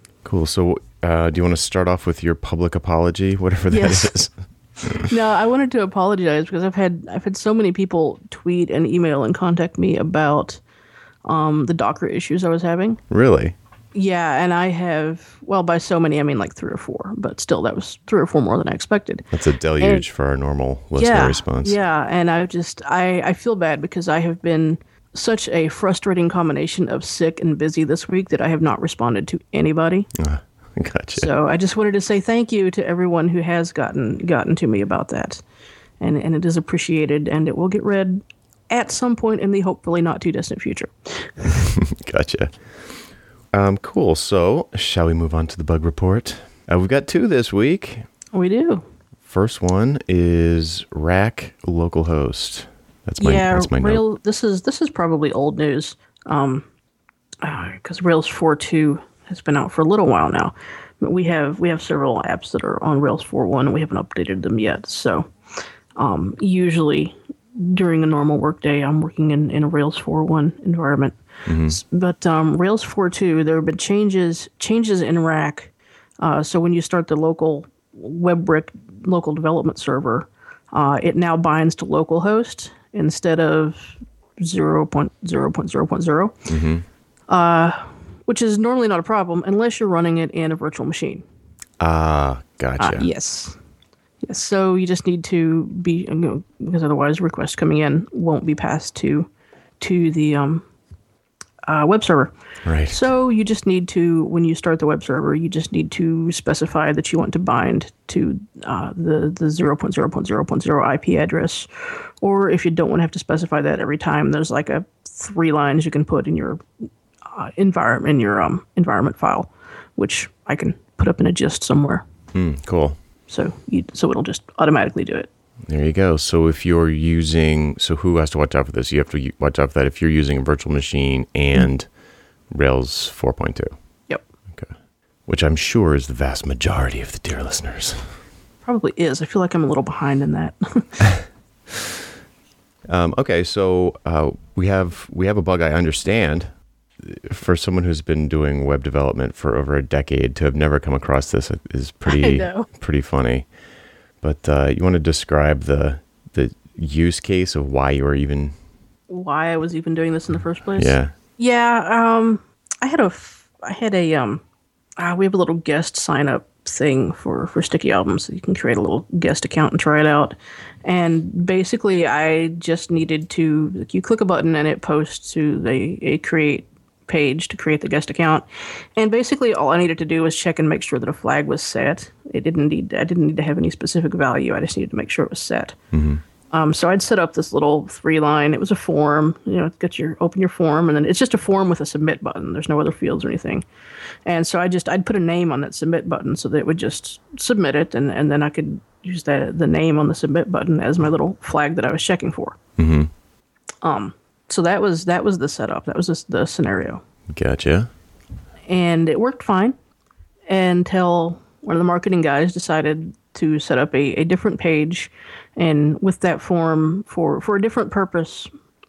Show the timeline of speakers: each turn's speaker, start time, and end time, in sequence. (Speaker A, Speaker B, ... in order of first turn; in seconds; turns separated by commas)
Speaker A: 0.2-5.1, Speaker B: 3.7-4.2, Speaker B: 4.9-10.6, Speaker B: 11.3-13.0, Speaker A: 13.1-13.6, Speaker B: 13.9-19.3, Speaker A: 19.3-21.8, Speaker B: 20.9-30.1, Speaker A: 30.1-31.3, Speaker B: 31.2-35.4, Speaker B: 36.0-41.6, Speaker A: 41.5-42.5, Speaker A: 43.5-48.0, Speaker B: 48.3-48.8, Speaker A: 49.2-54.0, Speaker B: 53.2-56.7, Speaker B: 57.4-65.3, Speaker B: 66.0-86.3, Speaker A: 71.5-71.8, Speaker A: 86.5-86.8, Speaker B: 87.3-91.2, Speaker A: 91.8-93.1, Speaker B: 92.8-93.6, Speaker B: 94.2-100.7, Speaker B: 101.7-102.3, Speaker A: 102.7-103.0, Speaker B: 102.9-116.6, Speaker B: 117.2-122.0, Speaker A: 122.3-123.0, Speaker B: 123.3-125.3, Speaker A: 125.7-131.9, Speaker A: 132.5-133.7, Speaker A: 135.3-138.1, Speaker B: 138.7-141.1, Speaker A: 142.9-146.5, Speaker A: 147.0-153.5, Speaker B: 152.1-152.7, Speaker A: 154.2-158.6, Speaker B: 159.1-164.4, Speaker A: 160.8-161.1, Speaker B: 165.0-185.8, Speaker A: 185.9-186.2, Speaker B: 186.5-193.7, Speaker B: 194.2-202.6, Speaker A: 202.8-203.1, Speaker B: 203.8-207.0, Speaker A: 207.3-207.9, Speaker B: 208.7-209.8, Speaker B: 210.5-218.5